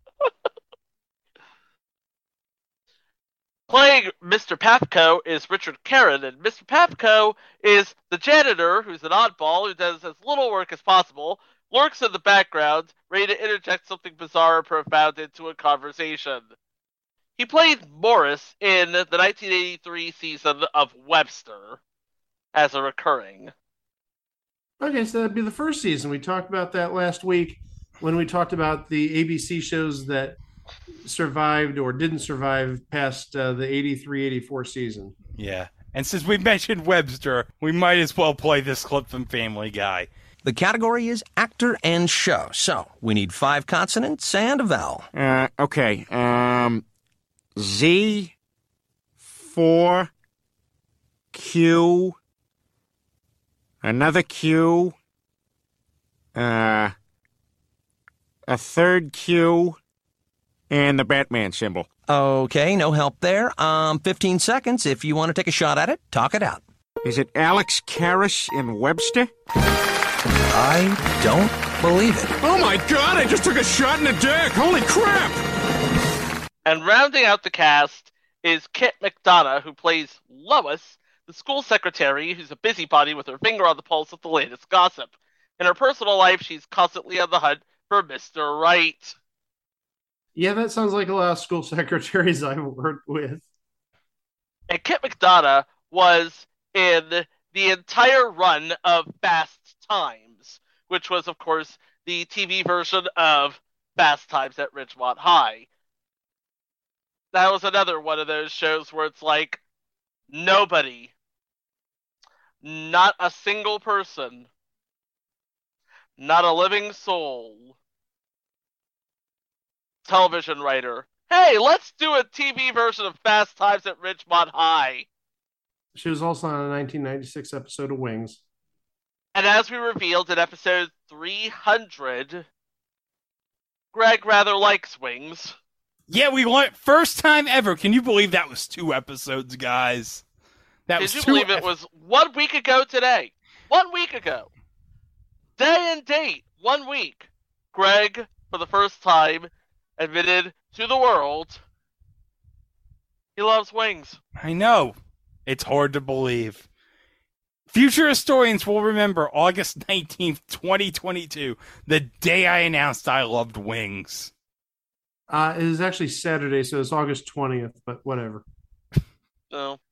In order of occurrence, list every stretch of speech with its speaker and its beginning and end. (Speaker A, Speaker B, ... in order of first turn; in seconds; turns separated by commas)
Speaker A: 3.7-16.5, Speaker A: 17.4-21.8, Speaker A: 22.5-23.5, Speaker B: 24.8-30.4, Speaker B: 31.0-35.1, Speaker C: 35.4-40.1, Speaker D: 40.4-45.1, Speaker E: 45.1-46.8, Speaker E: 47.6-48.4, Speaker E: 49.2-50.1, Speaker E: 51.3-52.2, Speaker E: 53.8-55.0, Speaker E: 56.4-57.0, Speaker E: 58.5-59.8, Speaker E: 60.7-61.9, Speaker D: 62.1-66.6, Speaker E: 67.0-69.3, Speaker D: 70.5-72.3, Speaker E: 72.4-75.4, Speaker A: 76.7-89.2, Speaker B: 90.3-93.5, Speaker A: 94.7-105.7, Speaker A: 107.3-109.6, Speaker A: 110.3-111.1, Speaker A: 112.6-114.5, Speaker A: 116.2-117.7, Speaker A: 120.0-125.1, Speaker B: 126.0-128.4, Speaker A: 129.3-132.5, Speaker A: 133.9-135.6, Speaker C: 136.1-140.2, Speaker C: 140.9-141.7, Speaker A: 141.0-144.5, Speaker A: 145.6-151.6, Speaker A: 153.4-154.2, Speaker C: 154.4-155.0, Speaker C: 155.5-156.7, Speaker C: 157.7-164.3, Speaker B: 165.3-168.4, Speaker A: 169.5-169.8